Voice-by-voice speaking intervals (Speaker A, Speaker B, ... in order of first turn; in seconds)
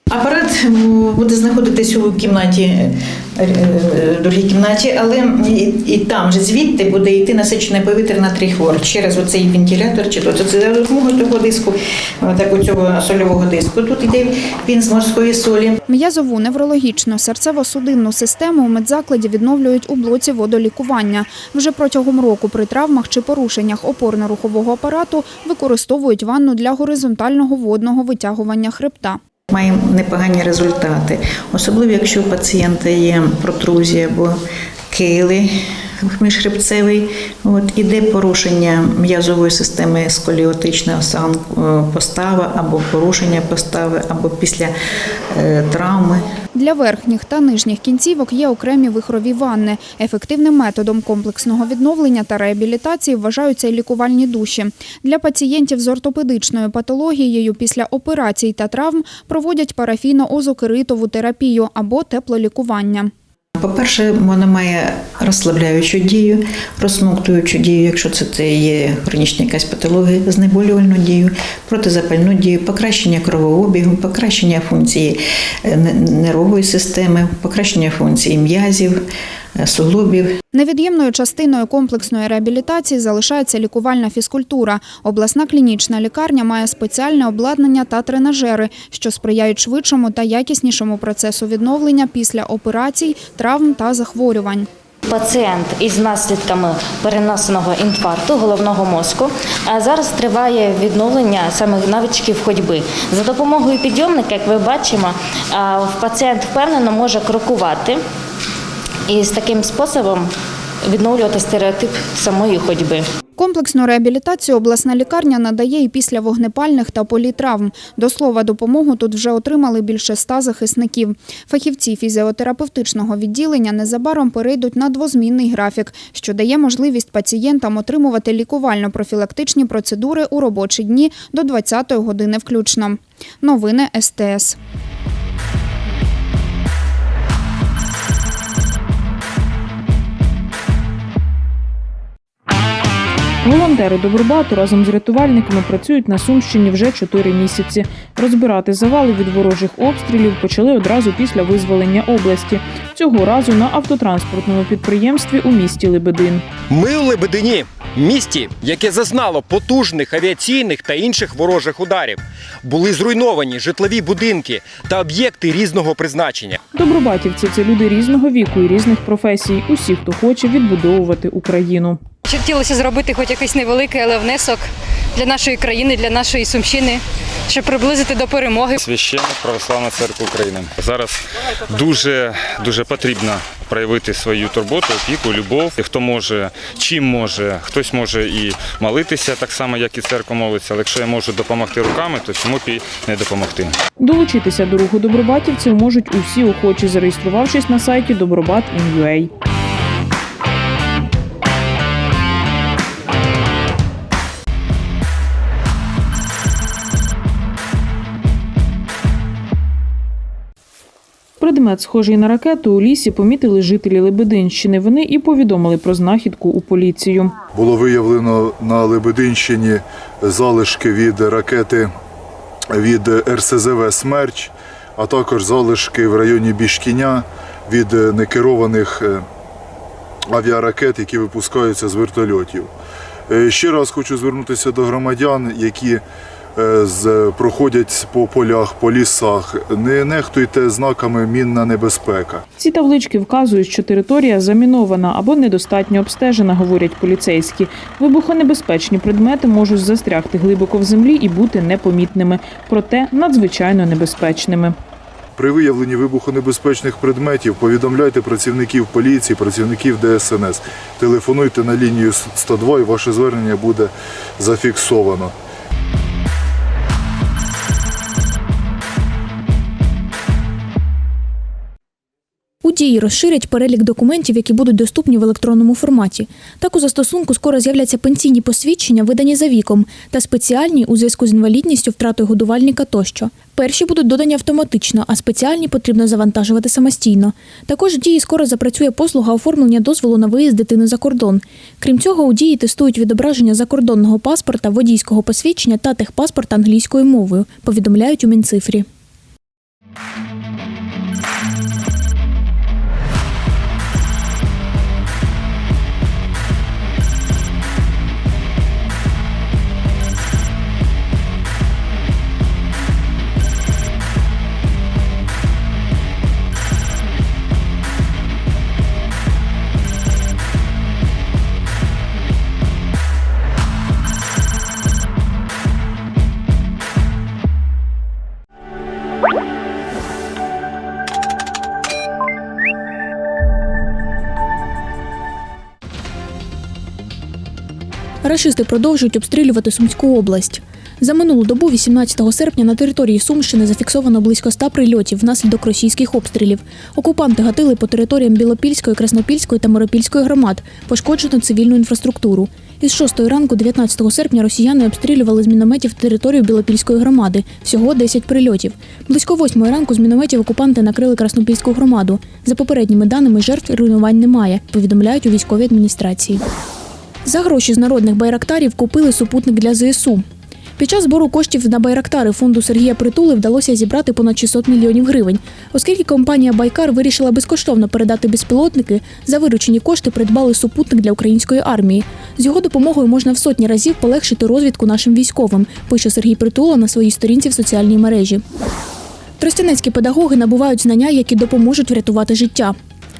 Speaker A: 0.1-15.8, 29.5-34.4, 34.9-35.5, 36.0-44.7, 45.3-46.2, 63.6-79.0, 79.6-80.3
Speaker B: 15.9-29.2, 46.5-63.1, 80.5-94.7, 113.4-134.6
Speaker C: 95.1-108.0, 109.1-110.3, 110.8-113.0
Speaker D: 143.4-156.4, 166.7-172.0, 194.0-199.3, 211.4-217.3, 242.6-254.7
Speaker E: 156.7-166.6
Speaker F: 172.3-174.6, 175.2-178.7
Speaker G: 178.8-193.8
Speaker H: 217.5-221.9, 222.7-229.2, 230.3-232.7, 233.3-236.0, 236.6-242.4, 255.4-265.3
Speaker I: 272.6-298.8, 338.2-366.4, 367.2-370.2, 370.8-388.4, 389.4-392.7